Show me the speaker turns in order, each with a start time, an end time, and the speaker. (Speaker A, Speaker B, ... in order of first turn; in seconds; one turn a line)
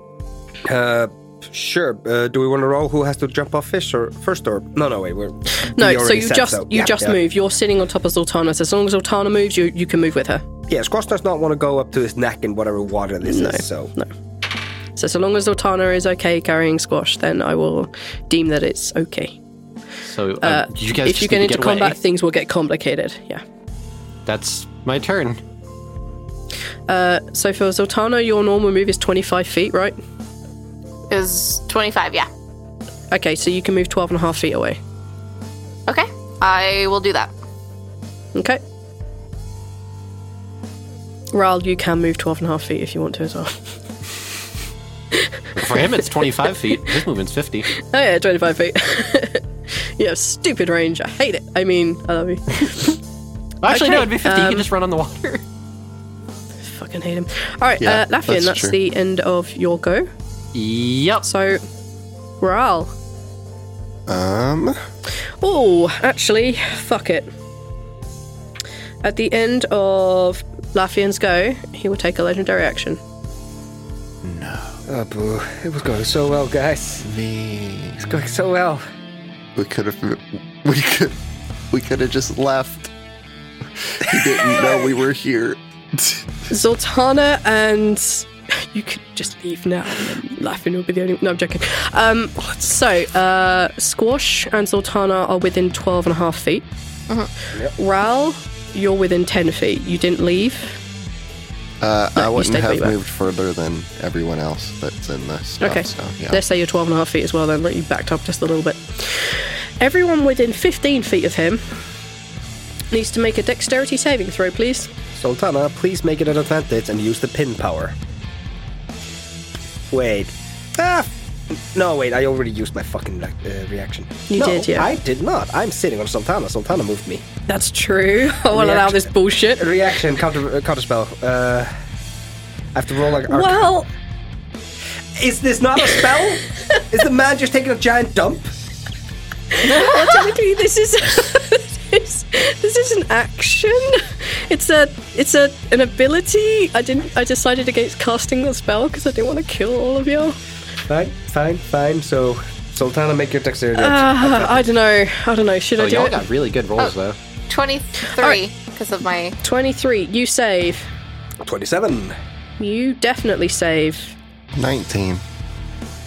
Speaker A: 0.6-7.2
Speaker B: 5.7-10.4
Speaker A: 10.7-13.9
Speaker B: 13.2-14.1
Speaker B: 14.9-19.4
Speaker C: 20.1-22.0
Speaker B: 20.4-23.4
Speaker C: 24.2-25.4
Speaker B: 26.9-30.0
Speaker D: 31.1-32.3
Speaker B: 33.1-34.8
Speaker D: 35.9-37.3
Speaker B: 38.3-38.6
Speaker B: 41.3-43.7
Speaker B: 45.1-45.8
Speaker C: 45.5-47.7
Speaker B: 47.8-53.0
Speaker C: 53.6-55.4
Speaker B: 53.7-54.6
Speaker B: 56.7-60.1
Speaker E: 57.8-58.8
Speaker C: 60.5-61.2
Speaker B: 61.2-61.6
Speaker B: 62.4-62.9
Speaker E: 64.1-64.8
Speaker B: 65.4-67.3
Speaker B: 69.0-73.0
Speaker E: 74.2-74.8
Speaker A: 74.9-77.0
Speaker E: 77.0-78.2
Speaker A: 78.0-78.8
Speaker E: 79.5-81.2
Speaker E: 81.7-82.9
Speaker E: 83.8-86.2
Speaker B: 86.5-96.7
Speaker B: 97.8-100.7
Speaker E: 101.8-106.4
Speaker B: 102.2-102.9
Speaker B: 105.6-111.6
Speaker B: 112.9-114.9
Speaker A: 115.1-117.9
Speaker A: 119.9-127.3
Speaker B: 124.3-124.9
Speaker B: 127.5-129.7
Speaker A: 128.5-131.7
Speaker A: 132.7-133.6
Speaker B: 133.3-133.9
Speaker A: 135.2-138.5
Speaker B: 139.5-150.4
Speaker A: 150.9-154.7
Speaker B: 153.8-156.2
Speaker C: 155.8-157.2
Speaker D: 157.5-159.3
Speaker B: 159.4-160.9
Speaker A: 161.4-162.1
Speaker B: 162.6-164.1
Speaker E: 164.5-165.2